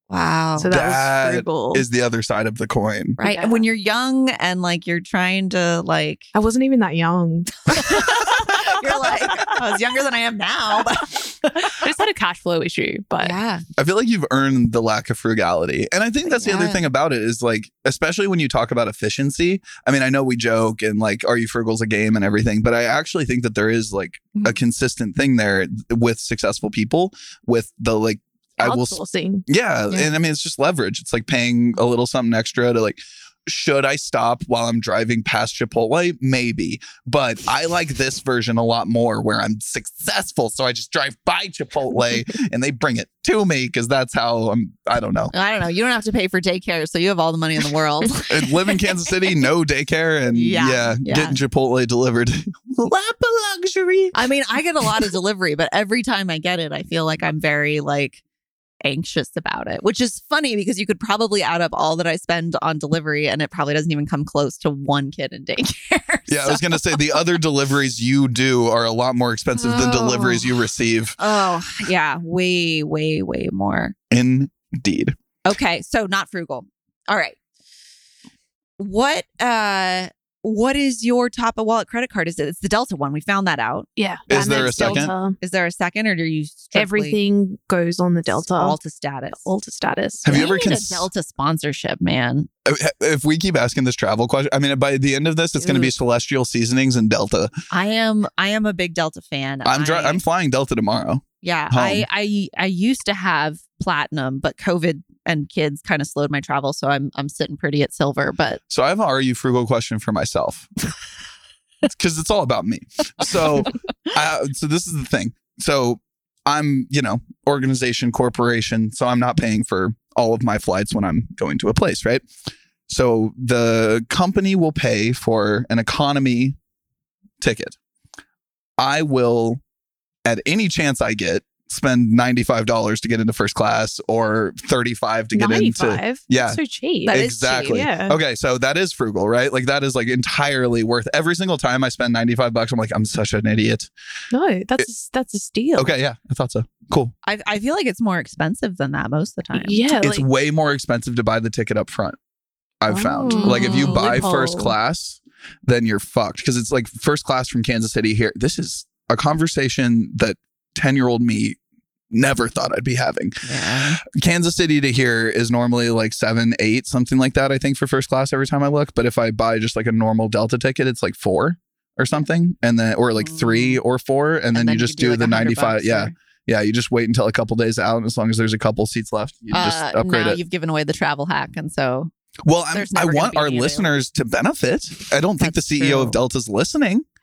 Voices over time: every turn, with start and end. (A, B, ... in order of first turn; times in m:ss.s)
0:00.1-0:00.7 A
0:00.6-0:01.8 B
0:00.7-0:03.2 C
0:03.2-0:03.6 B
0:03.2-0:06.3 A
0:06.3-0:08.4 B
0:07.7-0:11.9 A
0:11.6-0:13.4 B
0:13.2-0:13.6 A
0:13.8-0:45.3 C
0:16.3-0:16.8 A
0:28.6-0:29.5 B
0:45.3-0:48.7 A
0:48.3-0:54.2 C
0:50.3-0:51.4 A
0:54.1-0:58.2 A
0:58.8-1:07.3 A
1:06.3-1:11.2 C
1:09.6-1:10.6 A
1:11.2-1:14.0 A
1:14.1-1:15.2 C
1:15.4-1:17.4 A
1:18.8-1:27.2 A
1:24.0-1:25.4 B
1:24.3-1:25.1 C
1:26.8-1:28.8 B
1:28.4-1:29.4 A
1:29.4-1:30.5 B
1:30.2-1:31.1 C
1:30.3-1:32.5 A
1:32.6-1:37.5 C
1:35.6-1:35.9 A
1:37.7-1:40.2 A
1:39.6-1:42.0 C
1:41.4-1:48.6 A
1:48.7-1:50.7 C
1:51.8-2:02.2 C
2:02.9-2:06.6 C
2:07.4-2:07.8 C
2:08.8-2:09.6 C
2:10.2-2:23.9 C
2:15.3-2:18.2 B
2:17.1-2:17.8 A
2:24.3-2:25.9 B
2:25.8-2:27.1 C
2:27.2-2:30.0 A
2:29.5-2:30.3 B
2:30.0-2:32.2 C
2:32.8-2:41.6 C
2:32.9-2:34.8 B
2:33.3-2:34.3 A
2:42.1-2:43.4 C
2:43.4-2:44.0 A
2:44.0-3:00.4 C
2:53.2-2:53.8 A
2:54.5-2:56.2 A
2:59.5-3:02.1 A
3:02.4-3:07.0 C
3:02.7-3:03.9 A
3:05.4-3:06.2 A